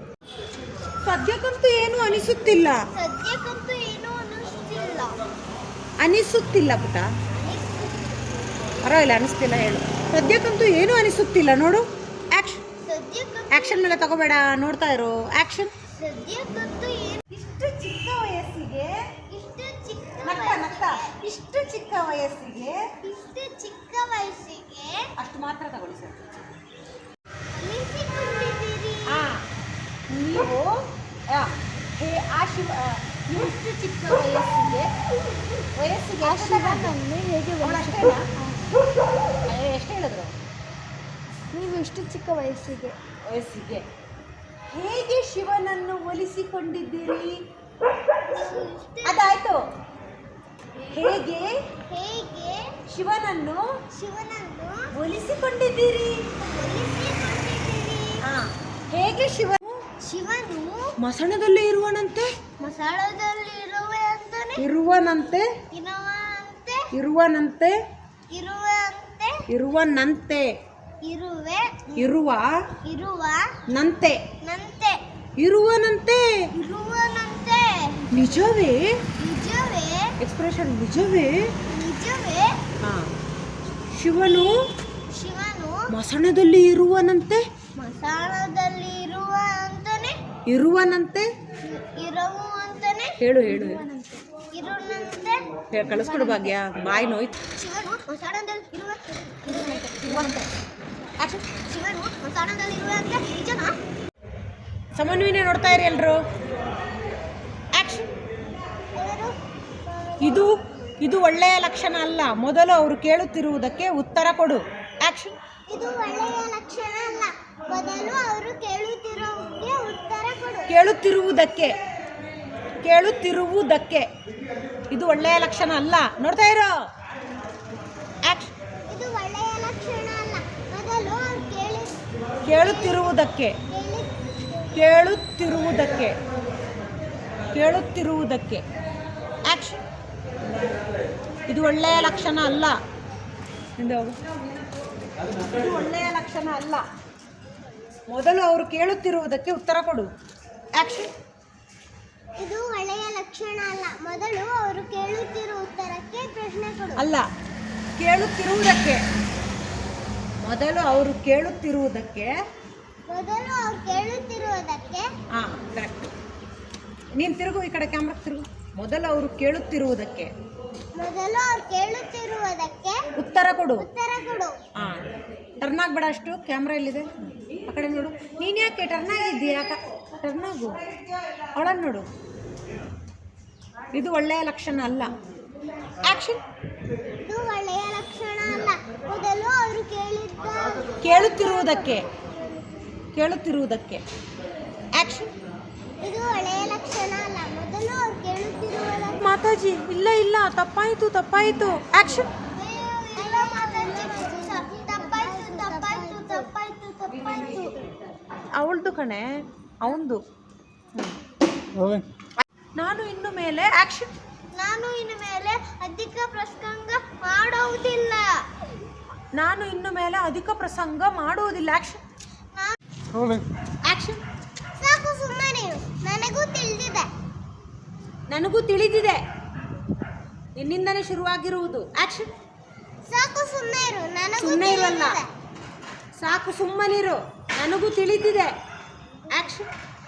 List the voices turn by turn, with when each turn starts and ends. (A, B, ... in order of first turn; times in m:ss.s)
0:01.0-0:02.8 A
0:02.9-0:05.1 B
0:06.0-0:07.1 A
0:07.4-0:08.1 B
0:08.8-0:12.6 A
0:12.8-0:13.9 B
0:13.5-0:15.7 A
0:16.0-0:17.2 B
0:17.3-0:18.9 A
0:19.3-0:21.1 B
0:20.2-0:22.8 A
0:23.0-0:25.1 B
0:25.2-0:26.2 A
0:27.5-0:29.2 B
0:29.1-0:29.4 A
0:30.1-0:30.7 A
0:31.3-0:34.9 A
0:35.8-0:36.9 A
0:36.2-0:38.6 C
0:37.6-0:38.2 A
0:39.5-0:40.3 A
0:41.5-0:43.0 C
0:43.3-0:43.8 A
0:44.7-0:47.4 A
0:48.3-0:49.4 B
0:49.0-0:49.6 A
0:50.9-0:51.6 A
0:51.9-0:52.6 B
0:52.9-0:53.6 A
0:53.9-0:54.8 B
0:54.9-0:56.2 A
0:56.4-0:58.2 B
0:58.2-0:59.8 A
1:00.0-1:00.9 B
1:01.0-1:02.3 A
1:02.6-1:04.6 B
1:04.6-1:05.5 A
1:05.7-1:06.9 B
1:06.9-1:07.8 A
1:08.3-1:09.4 B
1:09.5-1:10.5 A
1:11.0-1:12.0 B
1:12.0-1:12.5 A
1:12.8-1:13.5 B
1:13.7-1:14.2 A
1:14.4-1:15.0 B
1:15.4-1:16.2 A
1:16.6-1:18.4 B
1:18.1-1:18.9 A
1:19.2-1:20.1 B
1:20.2-1:21.4 A
1:21.7-1:22.6 B
1:22.8-1:23.1 A
1:23.9-1:24.6 A
1:25.1-1:25.9 B
1:25.9-1:27.4 A
1:27.8-1:30.2 B
1:30.5-1:31.3 A
1:31.6-1:33.2 B
1:33.2-1:33.8 A
1:33.4-1:34.2 C
1:34.5-1:35.4 B
1:35.7-1:37.3 A
1:37.6-1:39.6 B
1:39.5-1:40.5 A
1:41.7-1:43.8 B
1:45.0-1:46.2 A
1:47.7-1:48.1 A
1:49.0-1:49.4 B
1:50.2-1:55.4 A
1:55.7-2:00.7 B
2:00.7-2:01.8 A
2:02.8-2:04.1 A
2:04.9-2:06.7 A
2:08.3-2:08.5 A
2:08.9-2:12.0 B
2:12.4-2:13.6 A
2:12.5-2:14.8 B
2:14.7-2:16.2 A
2:17.5-2:18.6 A
2:19.5-2:19.8 A
2:21.5-2:22.8 A
2:23.8-2:24.2 A
2:25.4-2:26.8 A
2:28.1-2:30.1 A
2:30.8-2:31.1 A
2:32.4-2:37.0 B
2:37.0-2:37.2 A
2:38.0-2:39.0 A
2:40.4-2:42.3 A
2:43.1-2:45.1 B
2:45.3-2:46.1 A
2:47.2-2:50.3 A
2:51.0-2:53.0 B
2:53.2-2:53.9 A
2:53.8-2:54.5 B
2:54.8-2:55.0 A
2:55.6-3:00.9 A
3:01.5-3:02.1 A
3:03.9-3:05.1 A
3:06.0-3:06.4 A
3:07.2-3:11.8 B
3:11.0-3:12.0 A
3:13.2-3:14.0 A
3:15.0-3:15.3 A
3:16.0-3:19.3 B
3:19.2-3:22.3 A
3:22.5-3:27.8 B
3:23.8-3:26.4 C
3:28.6-3:29.3 A
3:29.8-3:30.2 A
3:32.8-3:34.1 A
3:34.5-3:38.3 B
3:39.4-3:42.0 A
3:43.9-3:44.2 A
3:44.8-3:47.1 B
3:48.3-3:49.2 A
3:50.6-3:52.3 A
3:53.1-3:55.3 B
3:54.4-3:55.2 A
3:56.2-3:58.6 A
3:59.3-3:59.7 A